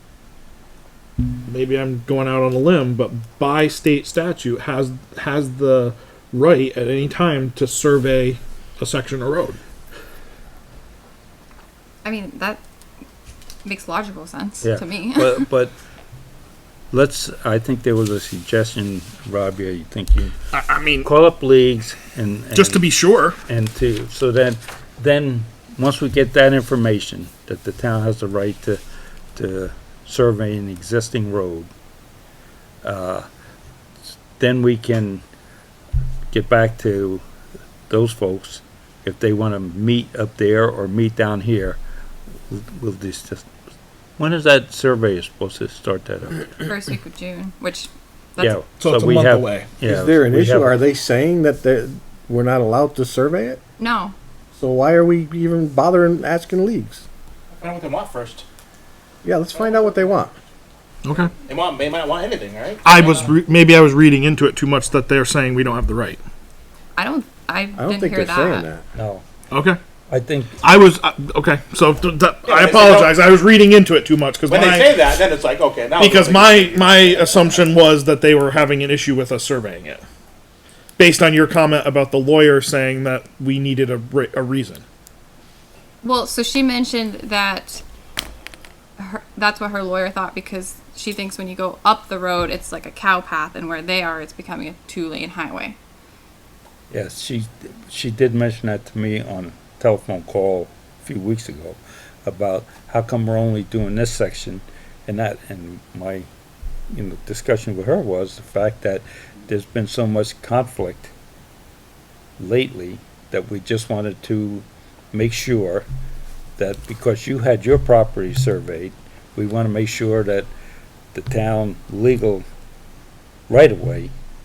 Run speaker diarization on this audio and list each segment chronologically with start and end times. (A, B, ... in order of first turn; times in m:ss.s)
0:01.5-0:09.6 A
0:12.0-0:12.6 B
0:13.6-0:15.5 B
0:14.6-0:15.8 C
0:16.9-0:20.3 C
0:20.5-0:21.1 A
0:21.0-0:22.9 C
0:22.5-0:23.4 A
0:23.5-0:28.8 C
0:29.4-0:31.7 C
0:32.8-0:33.3 C
0:34.2-0:35.2 C
0:36.3-0:37.2 C
0:37.9-0:41.8 C
0:42.5-0:43.5 C
0:44.2-0:46.6 C
0:46.6-0:48.6 B
0:48.4-0:50.8 C
0:48.8-0:49.7 A
0:49.8-0:53.6 D
0:53.8-0:54.2 B
0:54.6-0:57.0 D
0:57.6-0:58.4 E
0:59.2-1:00.4 D
1:01.0-1:01.3 A
1:01.3-1:03.3 E
1:02.8-1:06.2 A
1:07.0-1:08.7 B
1:07.8-1:08.9 D
1:09.0-1:09.2 C
1:09.5-1:09.8 A
1:10.1-1:10.6 C
1:10.6-1:15.2 A
1:12.4-1:13.2 E
1:14.5-1:17.6 E
1:16.0-1:20.0 A
1:21.0-1:24.8 A
1:26.0-1:27.8 B
1:29.0-1:35.8 B
1:36.9-1:46.3 C
1:46.9-1:51.1 C
1:52.4-1:55.9 C
1:56.6-2:00.5 C
2:01.1-2:02.4 C
2:03.5-2:04.1 C